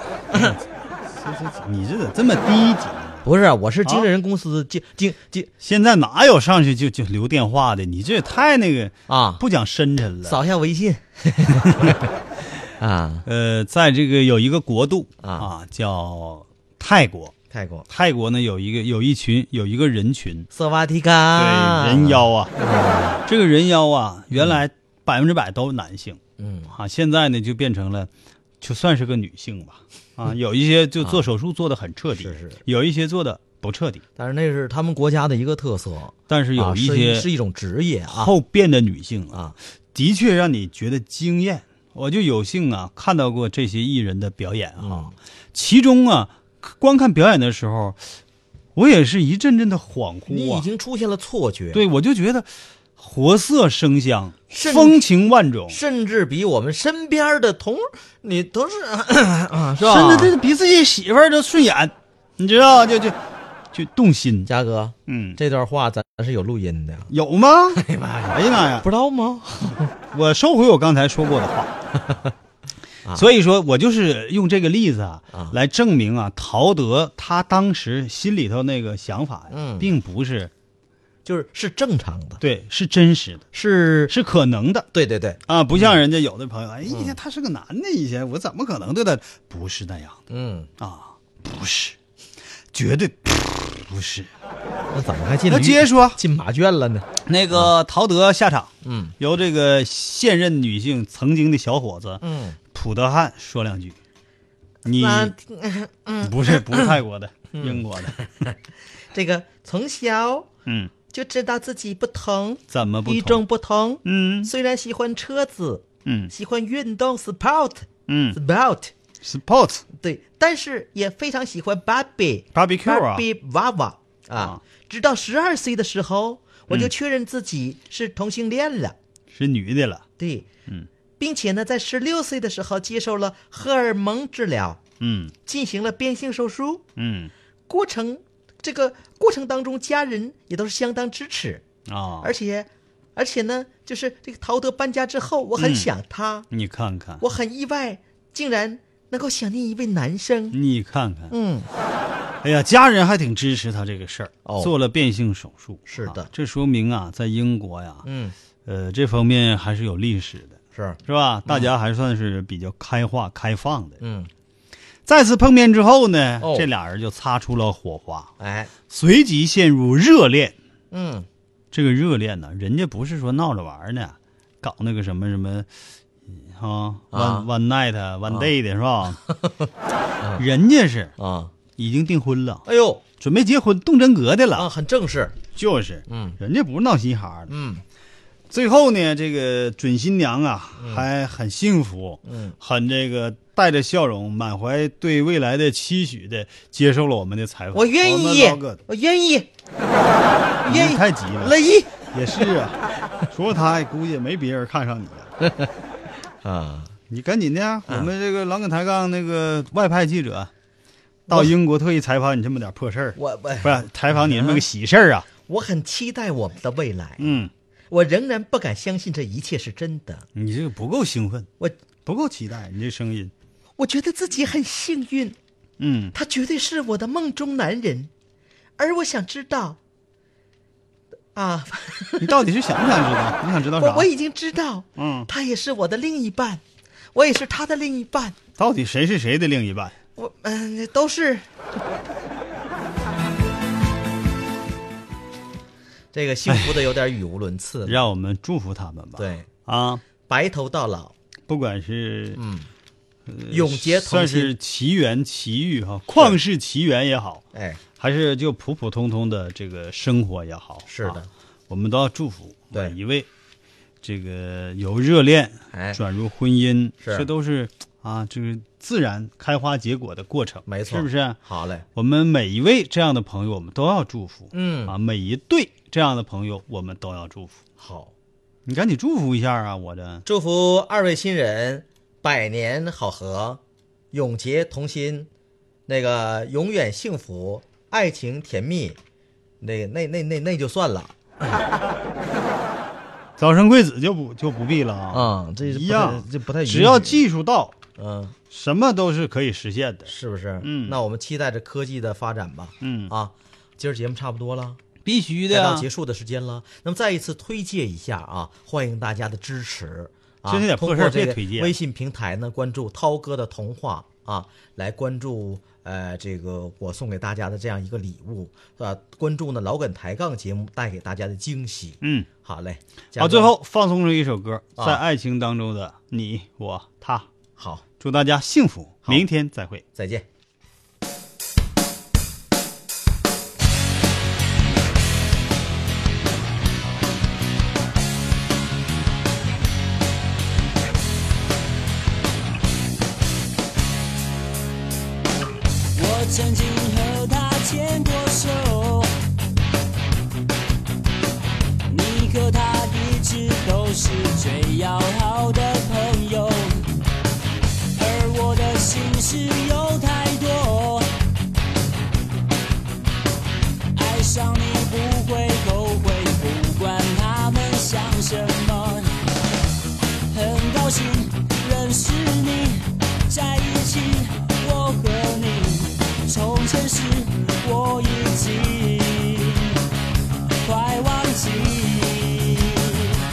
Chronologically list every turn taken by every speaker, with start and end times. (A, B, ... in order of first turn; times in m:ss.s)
0:00.3-0:03.3 A
0:03.2-0:05.5 B
0:03.8-0:04.1 A
0:05.6-0:10.4 A
0:09.1-0:09.4 B
0:10.2-0:12.1 B
0:11.5-0:12.0 A
0:12.8-0:13.3 B
0:13.3-0:17.3 A
0:15.2-0:15.5 B
0:17.5-0:17.8 B
0:17.9-0:20.5 A
0:20.5-0:23.2 B
0:21.4-0:22.5 A
0:23.2-0:26.2 A
0:26.4-0:26.7 B
0:26.7-0:28.1 A
0:28.6-0:34.0 A
0:32.2-0:32.6 B
0:34.2-0:38.3 B
0:36.3-0:37.3 A
0:38.1-0:39.4 A
0:39.9-0:48.0 A
0:44.8-0:45.1 B
0:48.8-0:50.7 A
0:50.3-0:51.8 B
0:51.7-0:55.8 A
0:54.5-0:55.1 B
0:55.7-1:00.3 B
0:59.8-1:03.2 A
1:03.7-1:04.5 A
1:04.5-1:07.1 B
1:05.1-1:05.4 A
1:07.1-1:08.9 A
1:07.8-1:09.9 B
1:09.9-1:11.8 A
1:13.1-1:20.5 A
1:19.5-1:19.9 B
1:21.2-1:22.4 B
1:22.4-1:23.4 A
1:23.5-1:24.1 B
1:24.1-1:24.9 A
1:24.9-1:25.9 B
1:25.5-1:30.2 A
1:26.9-1:27.2 B
1:30.3-1:30.7 B
1:30.8-1:32.0 A
1:32.7-1:34.3 A
1:34.9-1:37.7 B
1:35.5-1:36.2 A
1:37.3-1:44.0 A
1:38.8-1:39.1 B
1:42.2-1:42.6 B
1:44.8-1:45.4 A
1:44.9-1:47.0 B
1:46.2-1:48.2 A
1:47.5-1:48.6 B
1:49.1-1:50.5 B
1:50.7-1:50.9 A
1:51.1-1:58.9 B
1:52.7-1:53.4 A
1:54.0-1:54.5 A
1:56.0-1:56.3 A
1:58.1-1:58.4 A
1:59.2-1:59.8 A
1:59.9-2:09.0 B
2:02.5-2:03.3 A
2:09.3-2:10.0 A
2:10.2-2:10.5 B
2:11.2-2:14.8 B
2:15.0-2:15.3 A
2:15.5-2:16.8 B
2:17.0-2:17.3 A
2:17.7-2:21.6 B
2:21.9-2:22.3 A
2:22.2-2:26.5 B
2:25.6-2:25.9 A
2:26.5-2:27.2 A
2:27.2-2:30.6 B
2:30.5-2:31.3 A
2:31.3-2:31.7 B
2:32.4-2:38.1 A
2:34.4-2:34.7 B
2:35.9-2:36.3 B
2:38.0-2:38.3 B
2:38.6-2:44.0 A
2:40.8-2:41.7 B
2:44.0-2:44.3 B
2:45.0-2:48.3 A
2:46.4-2:46.7 B
2:48.4-2:48.7 B
2:48.9-2:50.6 A
2:50.9-2:51.3 B
2:51.7-2:55.7 A
2:56.3-2:59.2 A
2:57.1-2:57.5 B
3:00.4-3:01.1 A
3:01.2-3:01.5 B
3:01.8-3:02.6 A
3:02.6-3:03.0 B
3:03.2-3:04.7 A
3:04.6-3:05.4 B
3:05.5-3:07.5 A
3:06.1-3:06.4 B
3:07.5-3:07.8 B
3:08.5-3:18.8 A
3:10.8-3:11.1 B
3:12.2-3:12.6 B
3:17.7-3:19.5 B
3:20.6-3:21.9 B
3:20.6-3:25.3 A
3:26.4-3:26.9 B
3:27.1-3:30.5 A
3:31.3-3:35.3 A
3:33.2-3:34.6 B
3:35.4-3:40.3 B
3:37.2-3:37.5 A
3:40.4-3:41.5 A
3:42.0-3:43.3 A
3:43.8-3:45.4 B
3:45.8-3:46.2 A
3:46.1-3:48.1 B
3:48.8-3:49.8 B
3:51.4-3:52.4 B
3:52.2-3:54.1 A
3:53.8-3:56.6 B
3:55.0-3:55.3 A
3:57.1-3:58.4 B
3:58.6-4:00.0 A
4:00.2-4:01.5 B
4:06.1-4:08.0 B
4:06.5-4:06.8 A
4:07.9-4:10.0 A
4:09.2-4:09.5 B
4:10.3-4:11.1 B
4:11.5-4:12.4 A
4:12.4-4:12.7 B
4:13.3-4:17.4 A
4:13.5-4:14.5 B
4:17.5-4:17.8 B
4:18.0-4:23.3 A
4:20.9-4:21.3 B
4:24.0-4:31.4 A
4:25.7-4:26.0 B
4:27.0-4:27.3 B
4:30.7-4:31.8 B
4:32.0-4:37.6 A
4:34.5-4:35.0 B
4:37.8-4:38.1 B
4:38.7-4:40.2 A
4:40.2-4:43.6 B
4:44.1-4:45.3 B
4:45.9-4:49.0 B
4:49.6-4:51.2 B
4:53.4-4:57.8 A
4:55.1-4:57.2 B
4:58.0-4:58.4 B
4:58.5-5:01.0 A
5:00.1-5:04.8 B
5:02.8-5:03.1 A
5:05.0-5:05.9 A
5:05.5-5:23.5 B
5:10.5-5:11.7 A
5:22.0-5:22.3 A
5:23.2-5:27.3 A
5:24.8-5:25.0 B
5:27.6-5:27.8 B
5:28.0-5:29.8 A
5:30.0-5:30.2 B
5:45.9-5:49.1 C
5:51.9-5:56.9 C
5:58.0-6:01.1 C
6:03.9-6:09.1 C
6:10.3-6:19.8 C
6:20.6-6:23.2 C